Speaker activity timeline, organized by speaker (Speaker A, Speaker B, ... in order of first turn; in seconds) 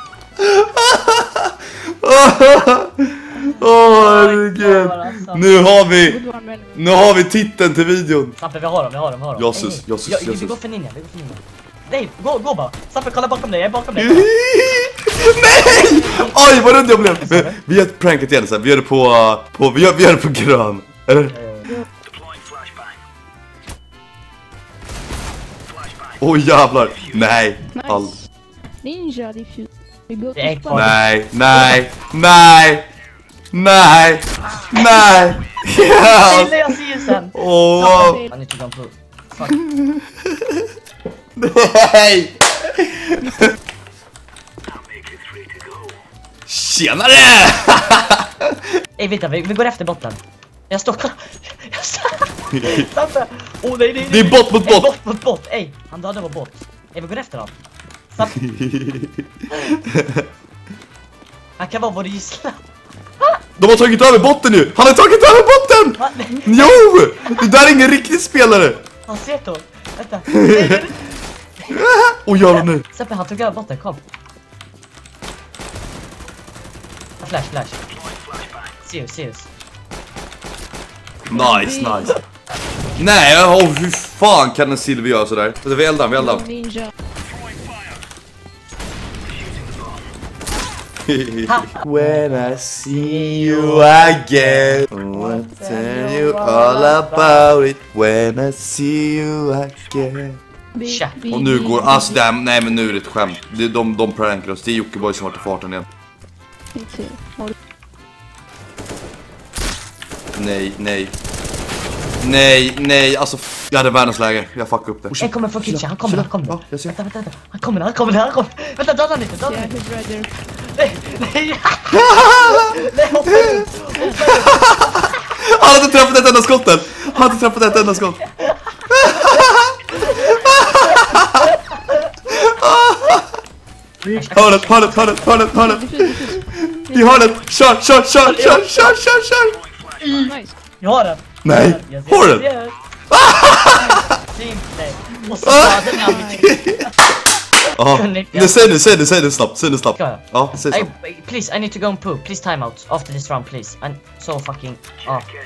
Speaker A: 0.4-6.2, 6.8-8.3, 9.4-10.5, 14.0-21.3, 26.2-28.2, 30.7-32.9, 33.5-36.5, 37.3-38.2, 39.5-40.5, 41.4-43.5, 46.5-48.6, 52.5-52.8, 54.0-54.9, 58.2-60.2, 63.6-68.8, 70.3-70.9, 71.7-72.8, 81.3-82.2, 83.0-86.5, 91.1-100.4, 101.3-105.8, 110.3-111.1, 112.2-117.0, 122.0-122.6, 123.3-123.6, 124.2-128.2, 128.9-131.5, 132.3-133.3, 134.3-139.6, 141.4-142.4, 143.1-144.1, 145.4-146.9, 147.8-150.9
Speaker B: 3.4-5.5, 8.4-14.3, 15.2-17.6, 21.3-21.7, 30.4-31.0, 35.8-39.6, 49.0-50.2, 50.7-57.5, 58.1-58.4, 61.6-62.6, 66.0-67.8, 69.1-71.0, 72.5-74.0, 77.2-77.8, 78.7-79.5, 91.5-97.5, 100.8-101.2, 115.2-119.7, 120.7-125.7, 127.7-129.4, 130.1-132.0, 134.1-135.4, 138.2-138.9, 140.0-142.8, 144.1-146.7, 147.9-148.8, 149.9-155.3
Speaker C: 6.0-6.8, 27.7-30.9, 37.8-38.3, 43.2-43.5, 81.3-82.2, 86.1-86.9, 100.8-102.2, 106.7-107.5, 119.4-120.3, 123.9-124.2, 135.4-137.4, 140.1-140.6, 145.2-146.5